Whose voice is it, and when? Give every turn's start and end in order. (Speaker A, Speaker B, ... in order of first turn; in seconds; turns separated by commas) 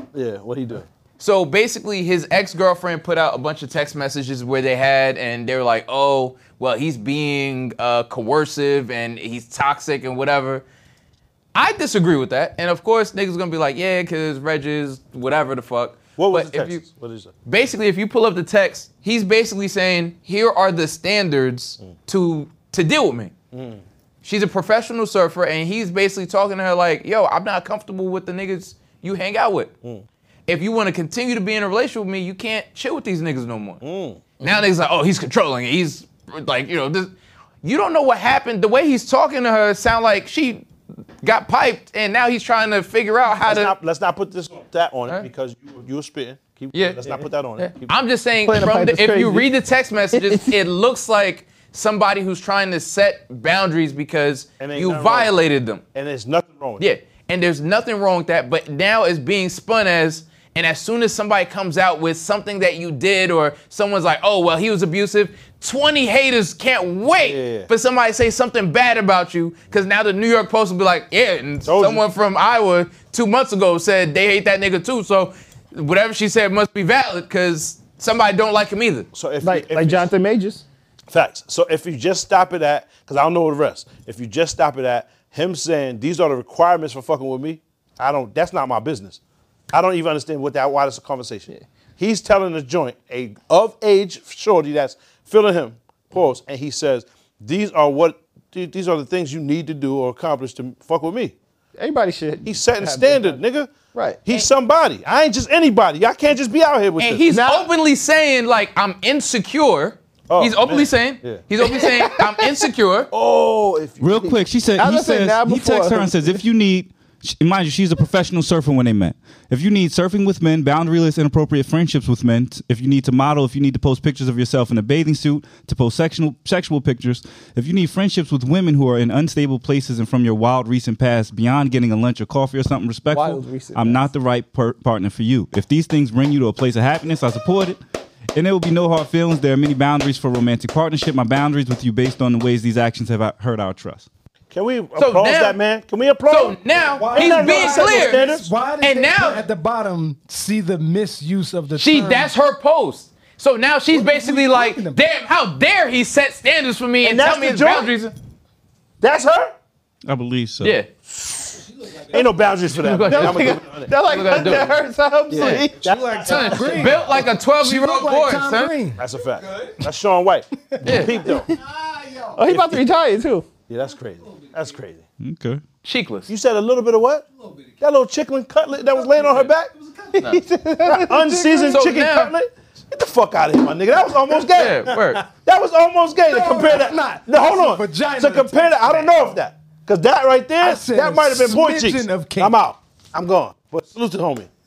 Speaker A: 0.1-0.9, Speaker B: 1.2-10.6, Speaker B: 11.5-16.8, Speaker A: 16.2-17.3, Speaker B: 17.4-23.3, Speaker A: 23.5-23.8, Speaker B: 24.2-29.7, Speaker B: 30.5-33.8, Speaker A: 33.8-34.2, Speaker B: 34.4-37.1, Speaker B: 37.6-40.6, Speaker B: 41.2-43.7, Speaker A: 43.4-47.9, Speaker B: 46.7-55.8, Speaker C: 48.4-49.5, Speaker C: 50.1-50.5, Speaker A: 54.6-55.3, Speaker A: 55.9-56.9, Speaker B: 56.8-79.1, Speaker A: 67.2-67.7, Speaker A: 71.7-72.0, Speaker A: 79.1-80.1, Speaker C: 79.4-80.6, Speaker A: 81.1-89.2, Speaker A: 89.7-101.3, Speaker C: 101.8-103.4, Speaker A: 102.4-103.7, Speaker C: 103.9-104.2, Speaker A: 104.2-107.2, Speaker B: 107.0-113.1, Speaker C: 107.3-107.7, Speaker A: 110.3-111.4, Speaker C: 111.6-112.4, Speaker A: 113.1-114.4, Speaker D: 114.0-137.8, Speaker C: 114.8-116.4, Speaker C: 133.1-134.1, Speaker D: 138.3-144.1, Speaker A: 144.5-148.5, Speaker B: 145.0-145.6, Speaker B: 146.3-148.2, Speaker E: 146.9-152.3, Speaker B: 148.8-149.4, Speaker B: 151.8-158.1, Speaker E: 153.9-155.0, Speaker A: 157.0-157.9, Speaker A: 159.0-159.5, Speaker D: 160.1-160.8, Speaker B: 160.6-160.9, Speaker E: 161.8-162.2, Speaker A: 162.1-164.8, Speaker B: 162.8-164.8, Speaker C: 163.1-165.7, Speaker E: 165.3-169.7, Speaker B: 165.3-165.7, Speaker A: 165.4-167.1, Speaker B: 166.2-168.8, Speaker A: 169.0-171.6, Speaker E: 170.7-171.1, Speaker B: 170.8-171.2, Speaker E: 171.8-172.4, Speaker C: 172.3-173.5, Speaker A: 173.7-175.0, Speaker D: 175.2-175.6, Speaker B: 175.8-176.3, Speaker A: 176.3-177.3, Speaker A: 177.8-179.7, Speaker E: 179.9-180.1, Speaker C: 180.1-181.8, Speaker A: 180.8-194.5, Speaker B: 181.7-182.3, Speaker B: 184.5-185.2, Speaker E: 186.3-189.1, Speaker E: 190.6-192.6